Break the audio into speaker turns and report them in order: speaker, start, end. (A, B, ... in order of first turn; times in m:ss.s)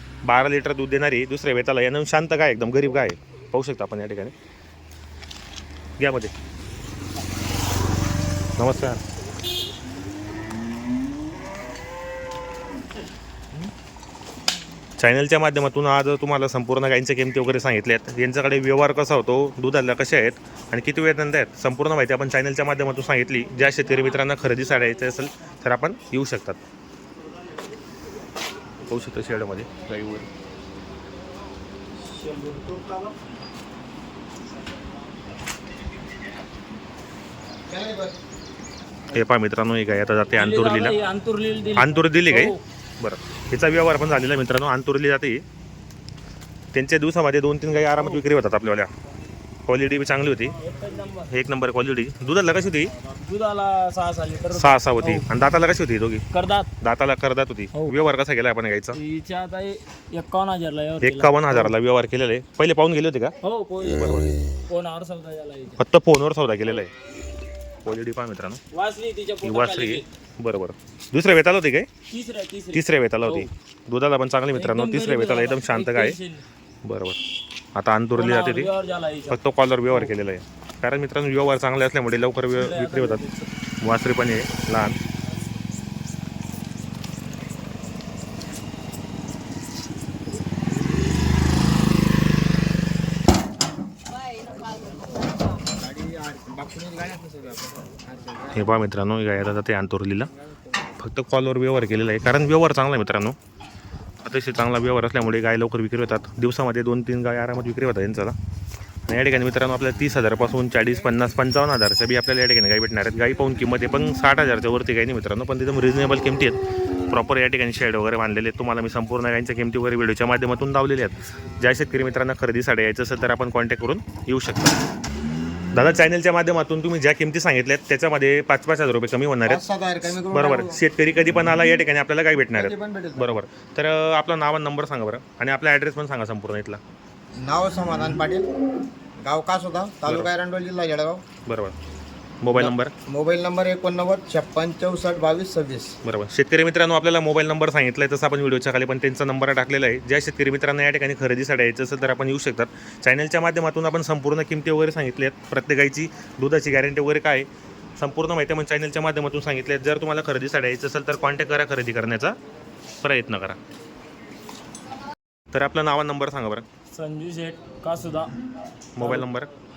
0:00.2-0:04.3 A
0:06.0-0:06.3 A
0:08.6-0:09.0 A
0:15.0-0:26.6 A
0:28.8-0:30.3 A
0:32.0-0:33.1 B
0:37.7-0:38.2 C
0:39.1-0:41.0 A
0:40.4-0:42.6 B
0:41.8-0:45.4 A
0:46.7-0:48.9 A
0:48.0-0:48.2 B
0:49.7-0:50.6 A
0:50.6-0:51.3 B
0:51.3-0:52.9 A
0:53.0-0:55.3 B
0:54.5-0:56.2 A
0:56.3-0:56.7 B
0:56.8-0:59.0 A
0:58.9-1:01.8 B
1:01.0-1:04.3 A
1:03.4-1:05.8 B
1:05.8-1:06.9 A
1:07.8-1:08.6 A
1:08.7-1:10.1 B
1:09.4-1:11.9 A
1:12.1-1:13.5 B
1:12.7-1:16.2 A
1:14.5-1:16.4 B
1:16.8-1:17.2 A
1:17.8-1:18.7 A
1:18.1-1:19.4 B
1:19.3-1:23.2 A
1:22.5-1:23.5 B
1:23.8-1:25.0 A
1:35.6-1:38.8 C
1:38.5-1:40.3 A
1:41.0-1:43.4 A
1:44.2-1:48.4 A
1:49.1-2:04.8 A
2:05.7-2:09.6 A
2:09.5-2:10.8 C
2:10.2-2:16.8 A
2:12.6-2:13.4 C
2:17.4-2:18.5 C
2:19.2-2:21.2 C
2:21.5-2:21.8 A
2:22.4-2:22.9 A
2:22.5-2:26.0 C
2:26.0-2:42.4 A
2:43.0-2:43.6 A
2:45.5-2:46.6 A
2:46.9-2:48.4 B
2:49.0-2:49.5 A
2:49.0-2:49.3 B